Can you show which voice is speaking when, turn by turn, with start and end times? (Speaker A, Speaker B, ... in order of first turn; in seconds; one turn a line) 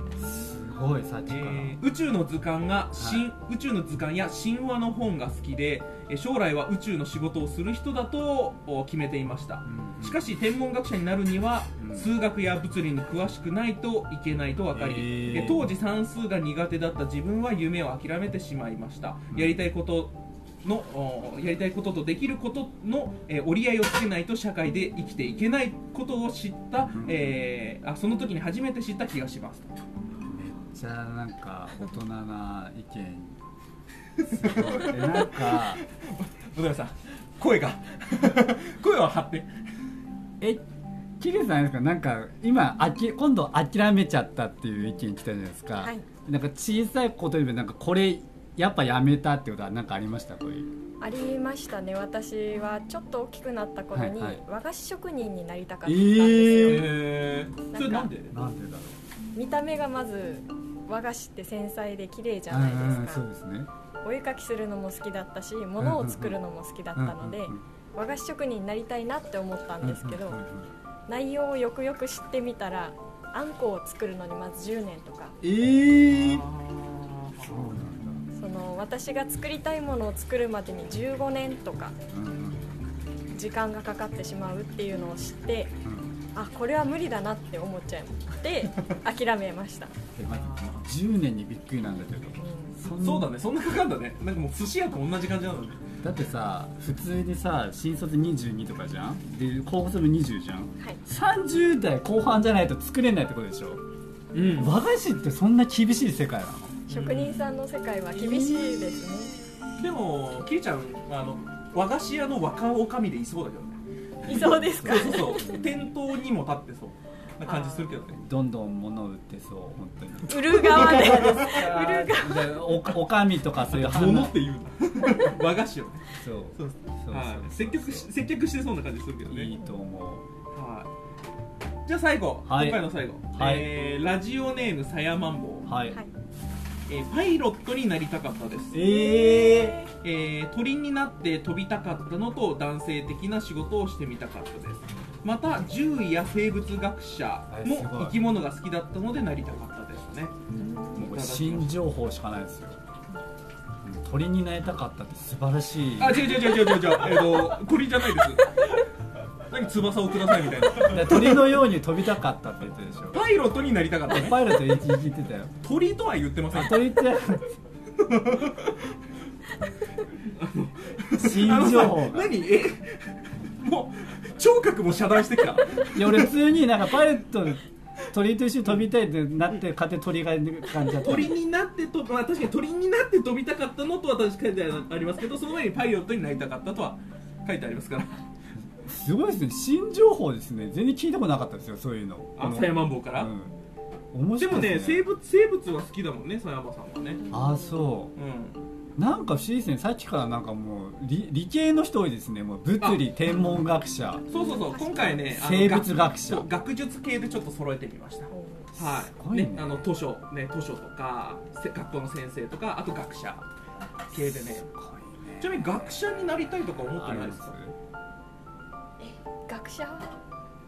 Speaker A: 0.2-1.8
Speaker B: 1.3-29.7
Speaker A: 3.0-3.3
Speaker A: 9.6-10.3
Speaker A: 11.8-12.1
Speaker A: 14.7-15.7
Speaker A: 19.3-19.6
Speaker A: 26.9-27.2
Speaker A: 30.3-33.4
Speaker B: 34.2-39.5
Speaker A: 34.3-35.8
Speaker A: 41.2-50.7
Speaker C: 45.8-46.0
Speaker C: 51.0-57.0
Speaker A: 53.9-54.4
Speaker A: 55.8-57.0
Speaker B: 56.6-58.3
Speaker C: 57.7-58.1
Speaker A: 58.3-59.0
Speaker C: 59.4-63.2
Speaker A: 62.5-63.7
Speaker C: 64.0-70.4
Speaker A: 65.8-66.4
Speaker A: 66.9-67.6
Speaker A: 69.8-70.7
Speaker C: 71.1-75.3
Speaker A: 75.4-76.5
Speaker B: 76.1-77.7
Speaker A: 77.4-78.2
Speaker C: 78.3-82.0
Speaker A: 82.1-82.8
Speaker C: 83.3-85.7
Speaker A: 85.8-86.2
Speaker C: 86.3-89.9
Speaker A: 90.1-93.3
Speaker B: 90.3-90.8
Speaker C: 92.4-92.7
Speaker B: 93.0-95.8
Speaker A: 96.0-103.8
Speaker B: 104.3-104.7
Speaker A: 104.5-106.8
Speaker B: 106.9-107.4
Speaker C: 106.9-109.3
Speaker A: 108.1-109.1
Speaker B: 109.8-118.2
Speaker A: 114.2-115.9
Speaker C: 114.2-115.4
Speaker C: 117.4-117.9
Speaker A: 118.1-124.3
Speaker C: 120.2-122.9
Speaker B: 120.6-121.5
Speaker B: 123.7-129.5
Speaker A: 126.2-128.1
Speaker A: 129.3-130.2
Speaker B: 130.5-130.9
Speaker B: 131.8-135.7
Speaker A: 132.5-133.7
Speaker A: 135.7-136.0
Speaker B: 136.9-138.8
Speaker A: 138.7-139.8
Speaker C: 138.8-139.9
Speaker B: 140.0-150.3
Speaker A: 147.5-148.2
Speaker C: 150.5-151.1
Speaker A: 150.9-152.8
Speaker B: 151.0-151.8
Speaker A: 153.8-156.5
Speaker B: 156.0-158.6
Speaker B: 159.5-161.5
Speaker A: 160.9-163.2
Speaker B: 163.1-164.6
Speaker A: 164.1-165.5
Speaker B: 165.6-167.0
Speaker A: 166.5-167.6
Speaker B: 168.0-168.8
Speaker B: 170.3-176.3
Speaker A: 171.1-172.3
Speaker A: 175.9-181.3
Speaker B: 181.0-188.2
Speaker A: 188.8-193.5
Speaker B: 192.4-193.3
Speaker A: 194.1-195.1
Speaker B: 194.4-197.2
Speaker C: 197.3-197.6
Speaker A: 197.3-198.1
Speaker B: 198.2-198.6
Speaker A: 198.9-204.2
Speaker B: 204.3-213.4
Speaker C: 204.3-205.2
Speaker A: 205.0-206.5
Speaker C: 208.3-208.7
Speaker A: 208.8-209.8
Speaker B: 214.1-214.7
Speaker A: 214.6-215.7
Speaker B: 215.4-217.5
Speaker A: 217.0-217.8
Speaker C: 219.0-220.2